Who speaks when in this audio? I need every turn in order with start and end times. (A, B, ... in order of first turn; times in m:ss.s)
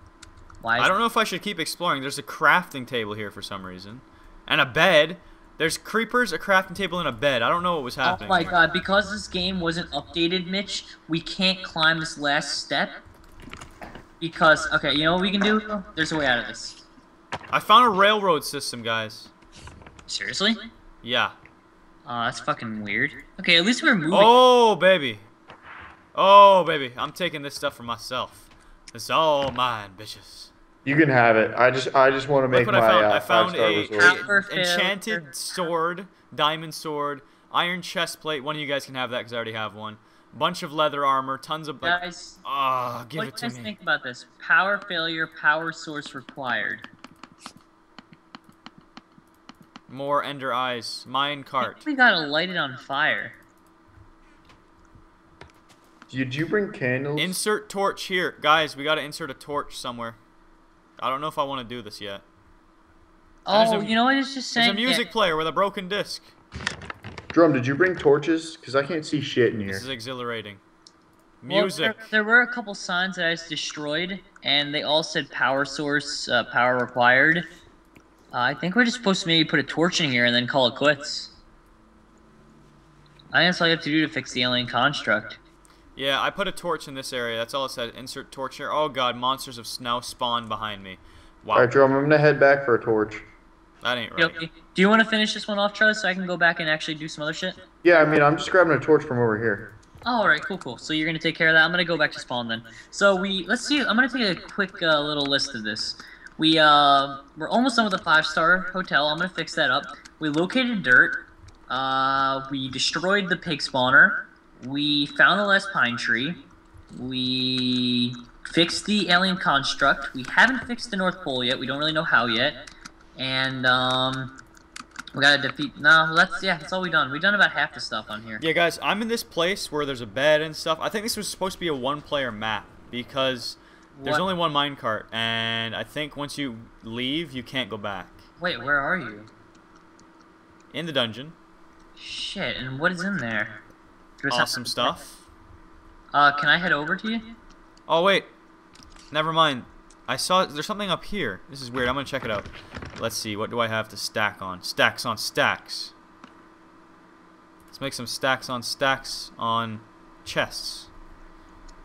0:00.6-0:00.9 A
0:00.8-0:08.6 B
0:08.0-0:13.0 A
0:14.2-0:16.8 A
0:17.5-0:19.3 B
0:20.1-0:20.7 A
0:21.0-0:21.3 B
0:22.0-0:24.3 A
0:24.1-0:25.2 B
0:26.1-0:30.5 B
0:30.8-0:34.2 C
0:32.5-0:43.7 B
0:33.9-0:35.3 A
0:41.8-0:42.4 A
0:43.1-0:46.8 A
0:49.9-0:51.9 B
0:51.6-0:53.4 A
0:56.1-0:57.3 C
0:57.2-1:00.2 B
1:01.0-1:02.2 B
1:03.4-1:05.0 A
1:03.5-1:04.0 B
1:04.5-1:06.3 B
1:07.3-1:09.8 C
1:09.7-1:10.6 B
1:11.4-1:12.0 B
1:11.5-1:17.5 A
1:18.3-1:21.3 A
1:23.3-1:25.4 A
1:26.0-1:31.7 B
1:31.5-1:33.2 C
1:33.8-1:34.4 B
1:34.2-1:37.6 A
1:37.8-1:39.7 C
1:40.0-2:02.6 A
2:03.2-2:04.4 A
2:05.1-2:08.4 A
2:08.4-2:18.2 B
2:13.9-2:14.3 A
2:18.4-2:19.3 A
2:20.7-2:21.3 B
2:22.0-2:23.6 A
2:24.2-2:25.0 A
2:24.3-2:25.2 B
2:26.1-2:27.3 A
2:27.9-2:28.3 B
2:29.1-2:35.9 B
2:37.7-2:40.9 B